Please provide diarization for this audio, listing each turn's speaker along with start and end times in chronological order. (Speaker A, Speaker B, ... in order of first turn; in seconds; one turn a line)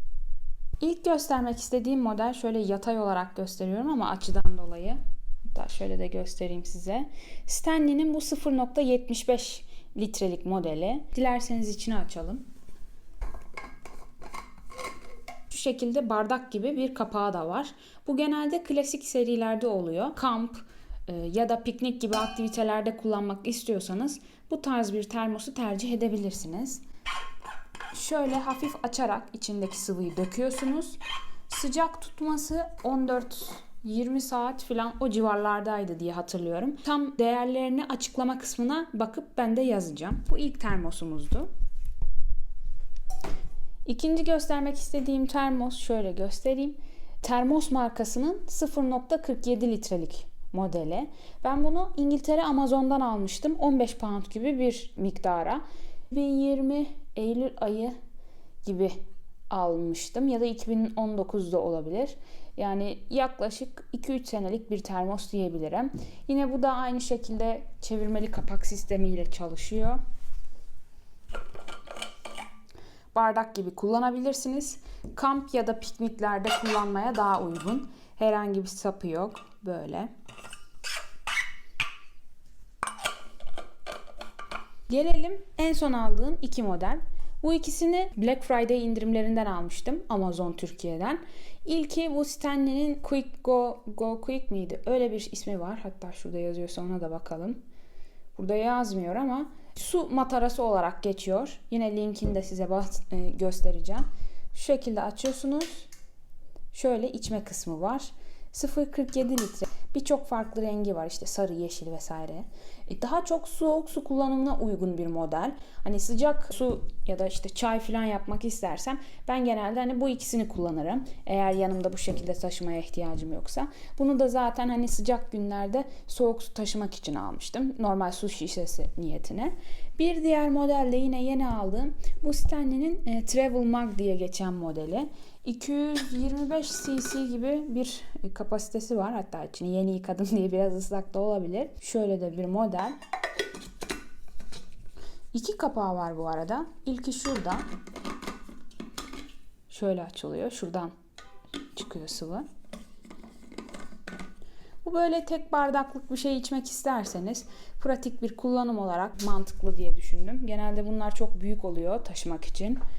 Speaker A: 0.8-12.4
Speaker A: 15.5-26.8
Speaker A: 27.9-31.0
Speaker A: 31.5-41.5
Speaker A: 43.9-57.9
Speaker A: 58.6-59.0
Speaker A: 59.5-70.0
Speaker A: 73.1-80.1
Speaker A: 84.9-97.6
Speaker A: 98.3-105.9
Speaker A: 106.7-142.9
Speaker A: 145.3-147.6
Speaker A: 149.7-150.9
Speaker A: 151.7-152.4
Speaker A: 154.8-162.8